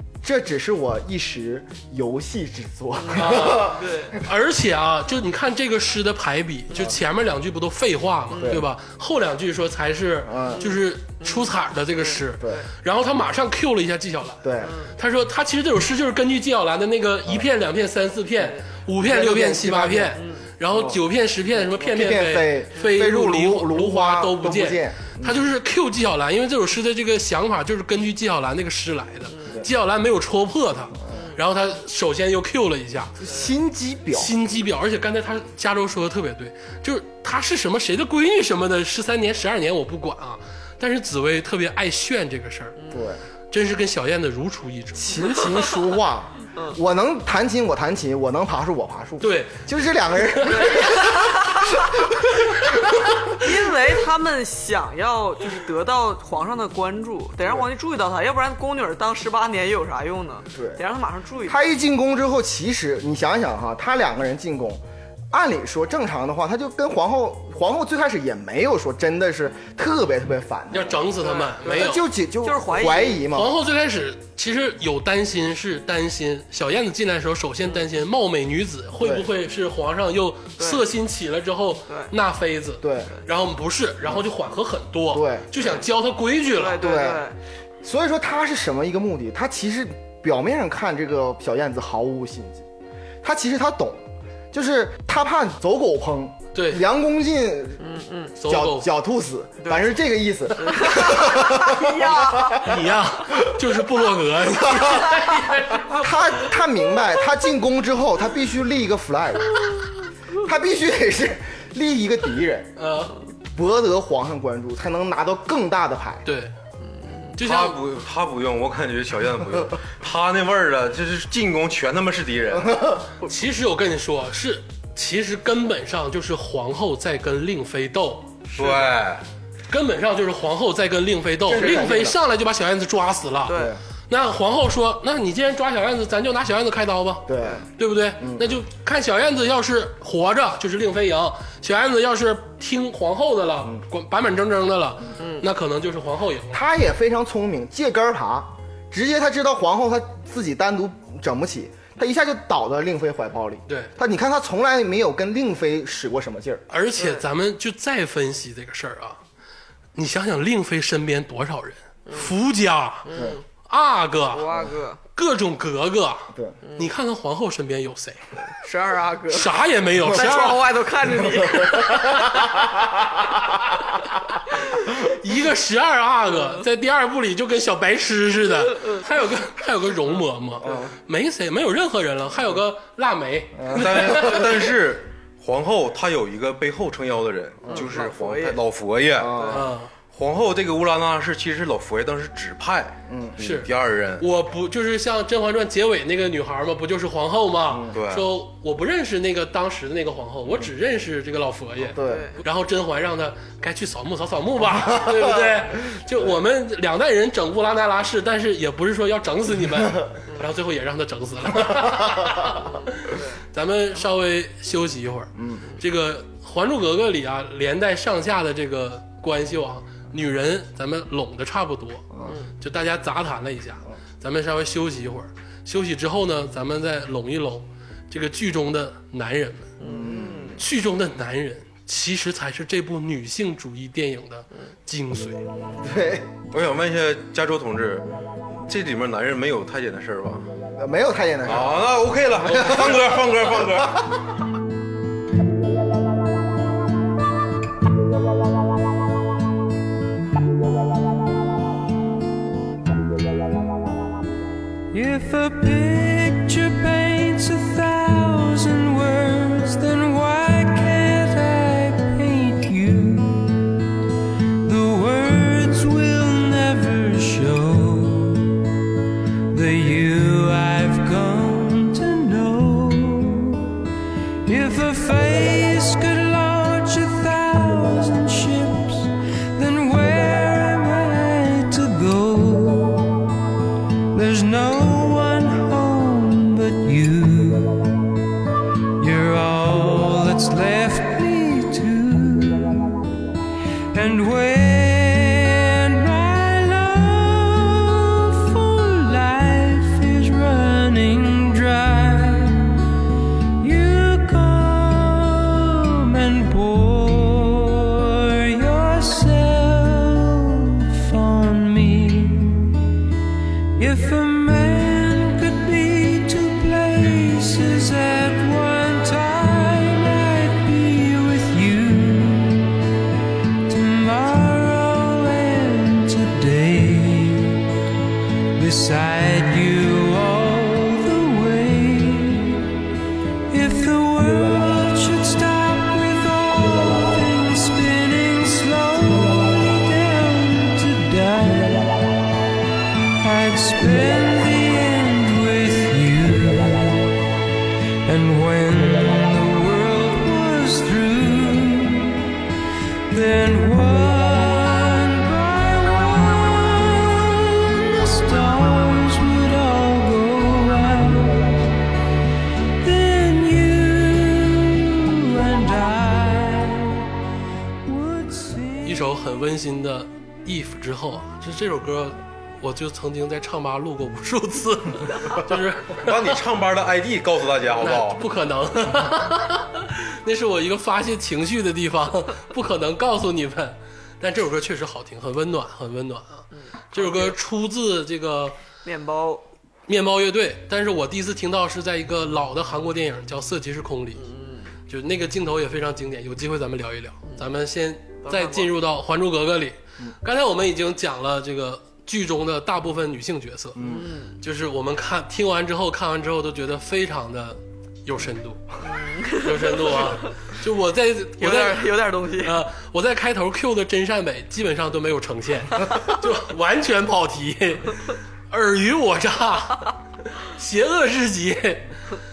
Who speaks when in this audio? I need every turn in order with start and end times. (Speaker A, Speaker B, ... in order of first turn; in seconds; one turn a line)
Speaker A: 0.2-3.9
Speaker B: 2.9-4.2
Speaker C: 3.1-14.4
Speaker B: 8.3-8.6
Speaker A: 8.3-8.7
Speaker A: 10.2-10.7
Speaker B: 10.5-12.7
Speaker A: 14.4-14.8
Speaker B: 14.6-14.9
Speaker C: 14.9-33.2
Speaker A: 19.0-20.2
Speaker B: 20.2-20.5
Speaker A: 20.7-21.0
Speaker A: 21.6-25.4
Speaker B: 29.3-29.6
Speaker B: 31.1-31.4
Speaker A: 33.2-34.3
Speaker C: 34.1-42.8
Speaker B: 42.8-43.0
Speaker A: 42.9-43.2
Speaker C: 43.5-45.4
Speaker A: 44.9-52.5
Speaker C: 49.2-50.9
Speaker B: 50.5-51.7
Speaker B: 53.4-61.6
Speaker A: 60.5-60.8
Speaker A: 61.5-71.1
Speaker C: 70.7-72.0
Speaker B: 71.2-73.2
Speaker A: 71.6-73.5
Speaker C: 73.3-86.8
Speaker A: 79.0-79.3
Speaker A: 82.8-83.1
Speaker A: 85.1-85.6
Speaker B: 86.5-87.4
Speaker A: 86.7-87.2
Speaker A: 87.8-92.6
Speaker A: 93.2-97.8
Speaker C: 96.5-96.8
Speaker B: 97.8-98.3
Speaker C: 98.4-98.9
Speaker A: 98.4-103.6
Speaker B: 99.6-99.9
Speaker B: 100.5-102.7
Speaker C: 102.6-106.5
Speaker A: 104.5-105.1
Speaker A: 105.9-109.5
Speaker A: 110.4-112.8
Speaker C: 112.8-113.2
Speaker A: 113.3-116.2
Speaker C: 116.2-116.5
Speaker C: 117.3-117.8
Speaker D: 117.4-122.7
Speaker A: 122.5-123.1
Speaker C: 123.2-128.3
Speaker B: 128.5-128.9
Speaker D: 128.6-129.2
Speaker C: 129.7-133.6
Speaker A: 131.4-132.2
Speaker B: 133.4-133.7
Speaker A: 133.5-133.8
Speaker C: 134.1-146.6
Speaker A: 137.2-137.7
Speaker A: 138.2-138.5
Speaker A: 146.5-156.6
Speaker C: 156.7-159.2
Speaker B: 157.0-157.2
Speaker C: 159.9-163.1
Speaker B: 163.1-163.4
Speaker C: 163.7-164.5
Speaker B: 164.3-165.0
Speaker C: 165.1-168.2
Speaker A: 166.3-166.6
Speaker B: 168.5-169.5
Speaker C: 169.3-170.8
Speaker B: 170.1-172.4
Speaker A: 171.4-173.0
Speaker C: 171.7-172.4
Speaker C: 174.8-184.7
Speaker A: 180.6-180.9
Speaker A: 183.6-184.5
Speaker D: 183.7-189.4
Speaker B: 187.7-188.6
Speaker A: 189.2-189.7
Speaker B: 189.3-189.6
Speaker C: 189.5-189.9
Speaker D: 190.1-194.2
Speaker A: 193.1-193.4
Speaker C: 193.4-229.7
Speaker A: 197.7-197.9
Speaker D: 197.9-198.3
Speaker A: 201.8-202.3
Speaker B: 202.0-202.4
Speaker A: 204.9-205.4
Speaker B: 213.1-213.3
Speaker B: 222.2-222.5
Speaker B: 229.8-230.6
Speaker A: 229.8-230.6
Speaker C: 230.6-235.4
Speaker A: 235.8-236.3
Speaker D: 236.5-238.1
Speaker D: 238.7-240.4
Speaker A: 240.8-241.9
Speaker D: 241.4-244.1
Speaker A: 242.4-244.0
Speaker C: 242.4-243.1
Speaker E: 254.9-263.7
Speaker E: 264.6-268.6
Speaker E: 269.5-273.8
Speaker E: 274.4-283.0
Speaker E: 284.1-287.8
Speaker E: 289.0-293.0
Speaker E: 293.9-302.7
Speaker E: 303.6-312.8
Speaker E: 313.8-322.7
Speaker E: 323.7-327.6
Speaker E: 328.6-332.8
Speaker E: 333.5-342.0
Speaker E: 343.2-347.1
Speaker E: 348.0-352.2
Speaker E: 353.1-361.7
Speaker E: 362.8-367.1
Speaker E: 367.8-369.1
Speaker C: 368.8-376.4
Speaker D: 375.9-378.2
Speaker C: 377.8-388.6
Speaker B: 386.5-387.4
Speaker B: 388.8-389.4
Speaker C: 389.9-394.2
Speaker B: 394.2-394.7
Speaker C: 394.9-403.8
Speaker B: 398.2-398.7
Speaker A: 403.8-404.1
Speaker B: 403.8-404.4
Speaker C: 404.4-408.8
Speaker B: 408.8-410.2
Speaker C: 409.4-421.9
Speaker B: 411.4-412.6